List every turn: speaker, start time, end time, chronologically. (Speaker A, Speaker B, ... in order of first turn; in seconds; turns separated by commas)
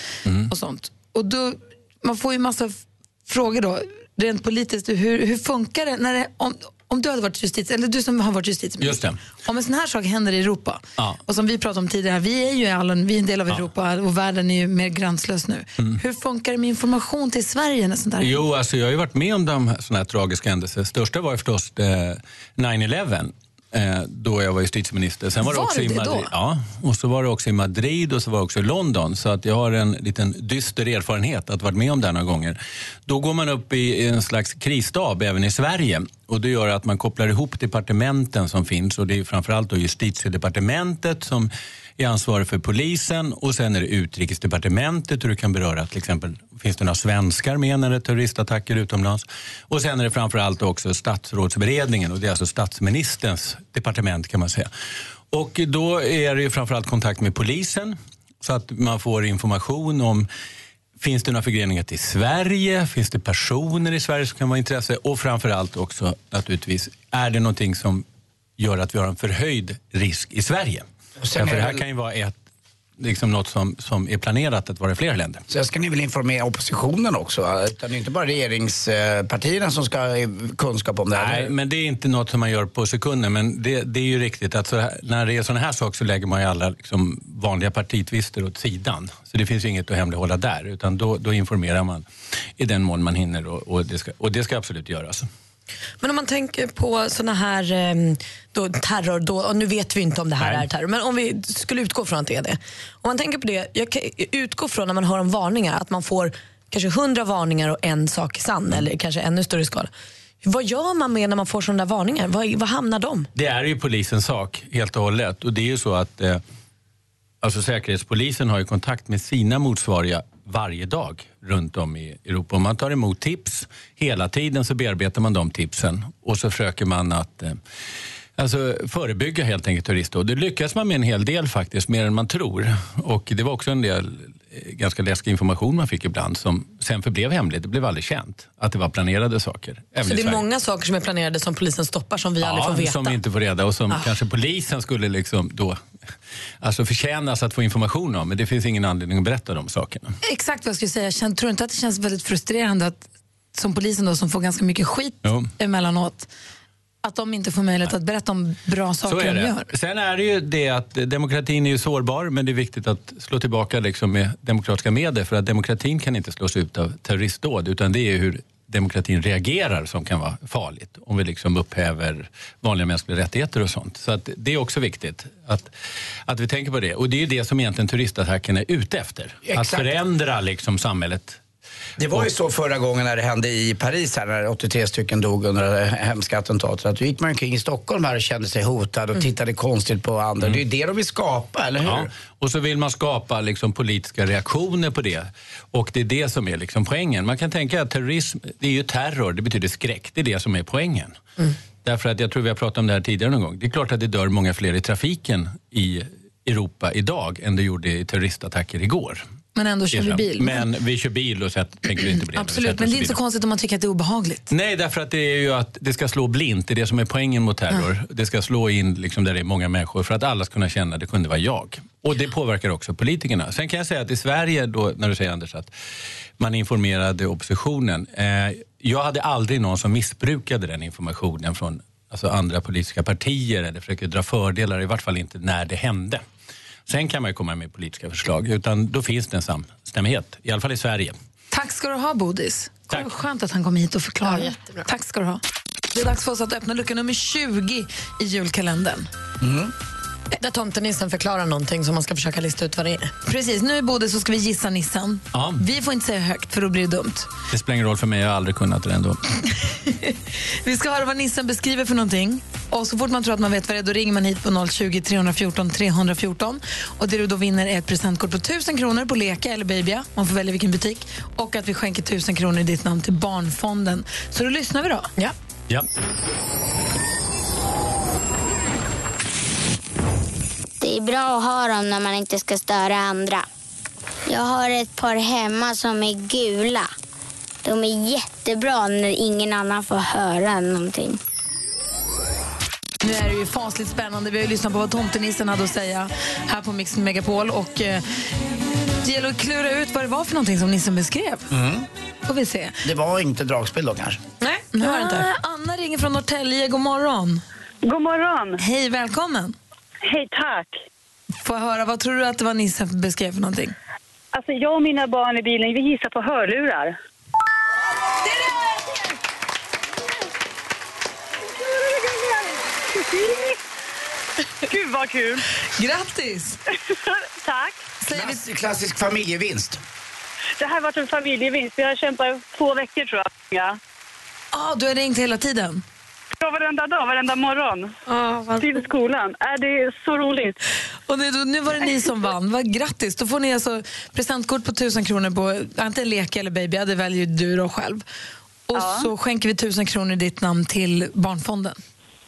Speaker A: 0.5-18.4, Speaker B: 8.8-9.2, Speaker B: 18.2-54.7, Speaker A: 25.4-26.3, Speaker B: 55.3-60.3, Speaker B: 61.0-68.0, Speaker B: 68.6-72.3, Speaker C: 71.2-71.8, Speaker B: 73.0-75.4, Speaker C: 75.5-81.5, Speaker B: 81.1-95.3, Speaker D: 96.0-109.9, Speaker B: 100.4-100.7, Speaker D: 110.4-113.3, Speaker B: 113.3-116.4, Speaker B: 117.4-127.6, Speaker B: 128.4-140.4, Speaker D: 140.0-143.2, Speaker B: 142.4-145.8, Speaker B: 146.6-150.1, Speaker A: 150.2-156.3, Speaker B: 155.2-155.5, Speaker A: 157.0-159.7, Speaker B: 159.0-175.7, Speaker B: 176.3-181.4, Speaker C: 179.4-179.9, Speaker C: 182.0-192.1, Speaker B: 191.8-201.2, Speaker B: 201.8-209.2, Speaker A: 209.5-210.7, Speaker B: 209.9-213.2, Speaker A: 212.3-214.5, Speaker B: 214.5-225.7, Speaker B: 226.4-236.2, Speaker B: 236.9-241.1, Speaker A: 241.5-245.4, Speaker D: 244.3-244.8, Speaker A: 245.9-249.1, Speaker C: 249.4-249.7, Speaker D: 250.4-253.1, Speaker A: 253.2-257.3, Speaker B: 255.3-255.6, Speaker B: 257.5-259.2, Speaker A: 259.6-275.1, Speaker E: 280.8-283.4, Speaker E: 284.3-286.9, Speaker E: 287.6-291.2, Speaker A: 293.0-298.0, Speaker A: 299.0-301.5, Speaker C: 301.5-301.9, Speaker A: 302.2-302.8, Speaker C: 302.8-304.2, Speaker D: 304.4-305.3, Speaker A: 304.7-307.4, Speaker F: 307.9-308.6, Speaker A: 308.6-309.6, Speaker F: 310.1-310.7, Speaker A: 311.4-313.7, Speaker F: 314.4-315.9, Speaker F: 323.0-323.4, Speaker F: 324.7-325.4, Speaker A: 325.7-326.6, Speaker F: 327.4-327.7, Speaker A: 328.0-328.4, Speaker C: 328.1-329.8, Speaker F: 330.6-333.7, Speaker A: 334.5-335.8, Speaker F: 336.4-337.9, Speaker D: 338.1-338.7, Speaker F: 338.6-340.5, Speaker A: 341.1-348.0, Speaker A: 348.7-351.8